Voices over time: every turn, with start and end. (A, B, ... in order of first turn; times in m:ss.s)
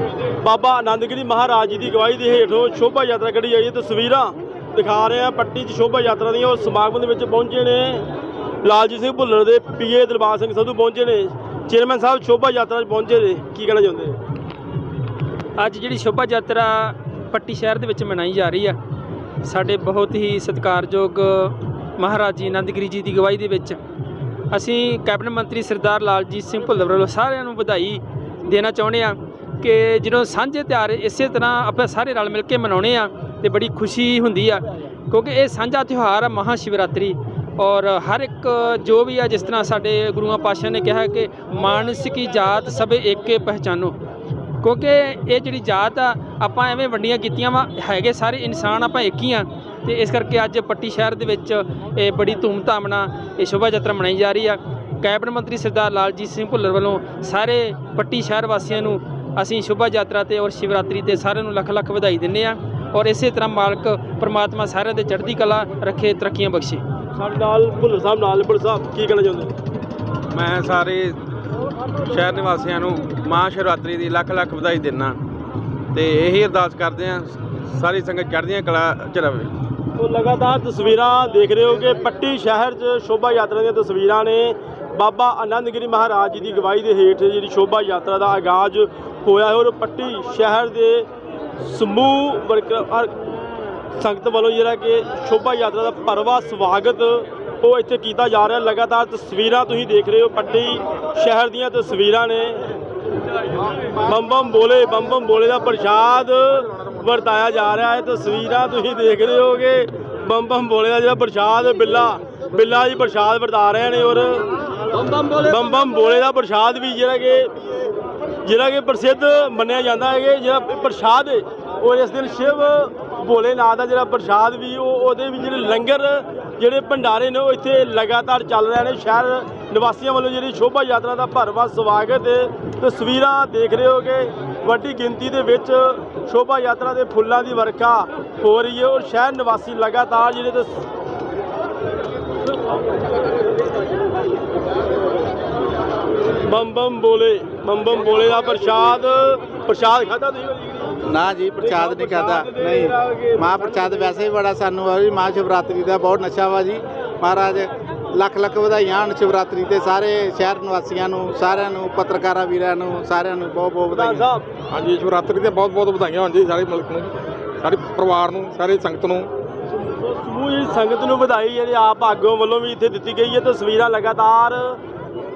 0:00.4-0:08.1 A
0:08.6-0:14.2 A
0:15.6-0:18.8 B
0:19.4-0:23.8 B
0:24.5-0:44.0 B
0:44.6-1:06.8 B
1:07.2-1:09.6 A
1:10.3-1:11.2 C
1:12.0-1:15.2 C
1:15.9-1:19.5 C
1:20.0-1:31.1 A
1:31.6-1:33.2 A
1:34.0-1:42.7 A
1:44.0-1:54.5 A
1:55.2-1:57.5 A
1:58.4-2:20.9 A
2:26.4-2:31.0 A
2:31.0-2:44.3 D
2:31.6-2:34.1 A
2:43.9-2:44.5 A
2:44.7-2:49.3 E
2:49.8-2:54.8 A